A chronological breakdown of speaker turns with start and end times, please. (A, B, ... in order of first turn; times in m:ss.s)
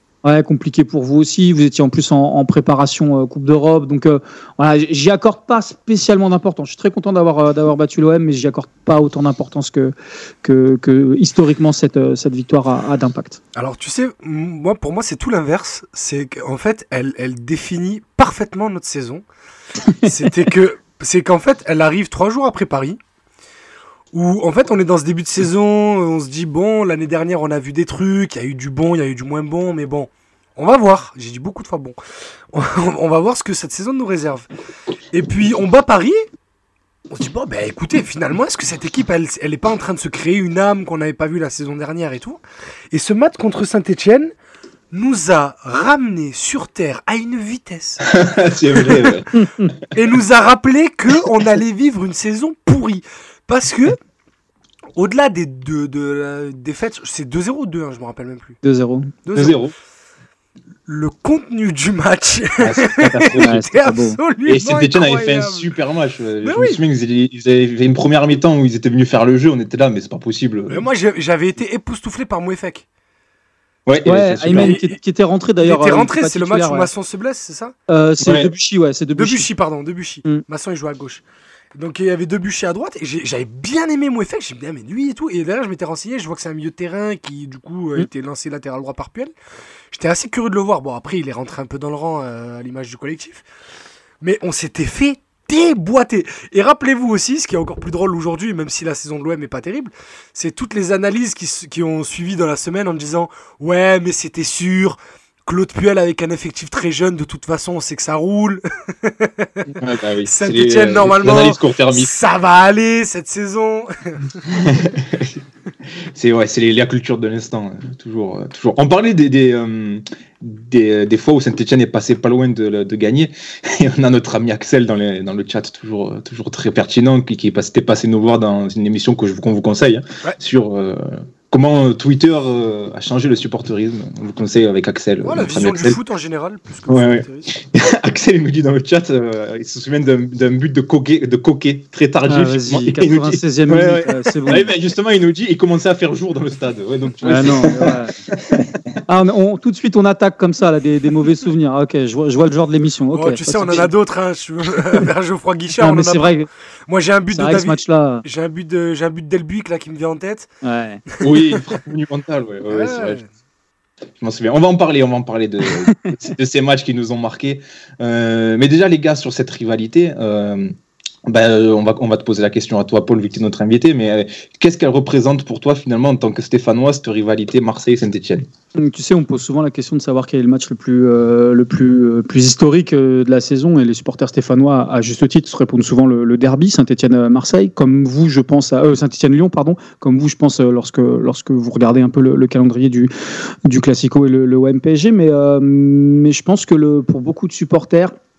0:00.2-0:13.4 A
0:13.6-0:19.2 B
0:20.0-0:23.0 B
0:24.1-0:32.0 B
0:32.5-0:34.5 B
0:35.1-0:36.2 B
0:37.1-0:42.4 B
0:42.9-0:44.3 B
0:44.9-0:48.1 B
0:48.1-0:49.3 C
0:49.4-0:49.7 A
0:49.9-0:54.0 B
0:55.0-0:58.6 B
0:58.6-0:59.1 A
0:59.2-0:59.6 B
0:59.4-0:59.7 C
1:00.9-1:05.7 B
1:02.6-1:03.7 C
1:03.4-1:04.2 A
1:04.5-1:10.8 C
1:06.4-1:06.8 B
1:10.7-1:12.9 B
1:13.9-1:14.8 C
1:14.0-1:16.9 A
1:14.5-1:15.0 B
1:15.6-1:17.7 B
1:17.9-1:19.5 A
1:18.2-1:18.5 C
1:19.2-1:21.2 B
1:21.8-1:29.3 B
1:29.9-1:33.4 B
1:34.2-1:54.4 B
1:49.8-1:52.1 C
1:54.5-1:55.4 C
1:56.2-2:16.0 C
2:15.2-2:17.5 B
2:16.9-2:28.6 C
2:22.3-2:24.7 A
2:27.2-2:28.1 A
2:29.1-2:33.9 A
2:33.1-2:36.4 B
2:35.8-2:36.5 A
2:36.9-2:40.5 B
2:37.3-2:38.2 A
2:40.6-2:41.0 A
2:41.2-2:41.6 B
2:41.2-2:43.2 C
2:42.7-2:43.3 B
2:44.2-2:50.7 C
2:51.3-2:58.5 C
2:58.8-3:13.1 A
3:13.7-3:18.1 A